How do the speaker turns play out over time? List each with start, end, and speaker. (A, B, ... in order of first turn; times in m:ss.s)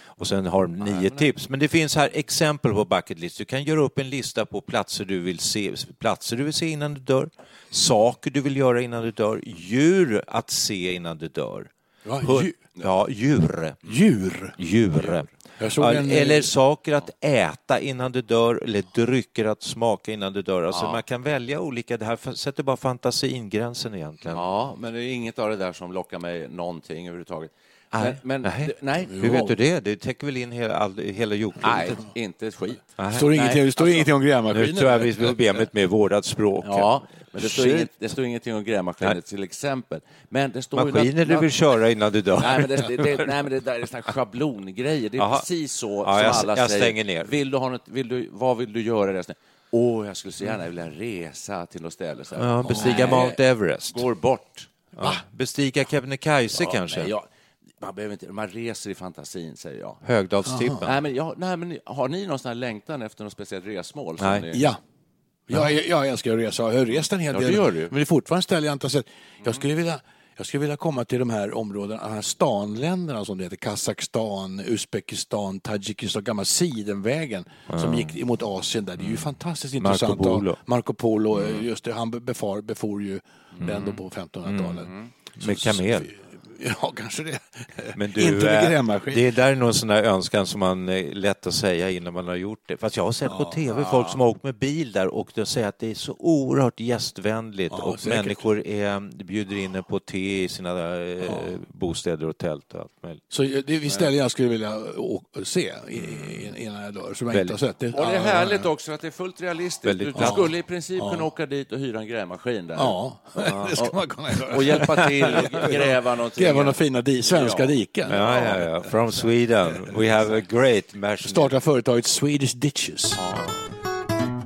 0:00.2-0:11.7 A
0:00.8-0:01.3 B
0:12.0-0:12.6 C
0:12.2-0:13.8 A
0:13.8-0:14.6 C
0:14.6-0:24.4 A
0:15.6-0:16.5 C
0:20.7-0:21.0 B
0:24.3-0:29.5 B
0:27.9-0:32.0 A
0:29.0-0:29.5 C
0:31.6-0:34.1 B
0:33.0-0:33.3 A
0:33.1-0:35.3 C
0:34.5-0:37.9 A
0:36.6-0:41.6 B
0:40.7-0:43.3 A
0:42.4-0:54.7 B
0:45.2-0:45.4 A
0:46.0-0:47.3 A
0:52.4-0:54.0 A
0:52.7-0:53.2 C
0:55.0-0:57.1 A
0:56.5-0:57.3 B
0:57.8-1:00.0 B
1:00.0-1:01.0 A
1:00.4-1:00.8 C
1:00.8-1:04.7 B
1:04.2-1:04.5 A
1:04.5-1:04.8 C
1:05.5-1:29.2 C
1:07.3-1:07.9 B
1:17.7-1:18.1 A
1:19.0-1:20.6 A
1:21.3-1:21.6 A
1:23.6-1:26.1 A
1:27.9-1:43.2 A
1:33.2-1:33.6 C
1:37.7-1:38.4 C
1:41.2-1:41.5 C
1:43.3-1:48.7 C
1:46.0-1:46.5 A
1:47.3-1:47.6 A
1:47.9-1:53.0 B
1:49.8-1:50.5 A
1:50.2-1:51.2 C
1:52.8-1:58.9 C
1:53.4-1:53.8 A
1:54.5-1:58.5 B
1:58.1-2:01.5 A
2:01.2-2:03.2 C
2:03.1-2:03.5 B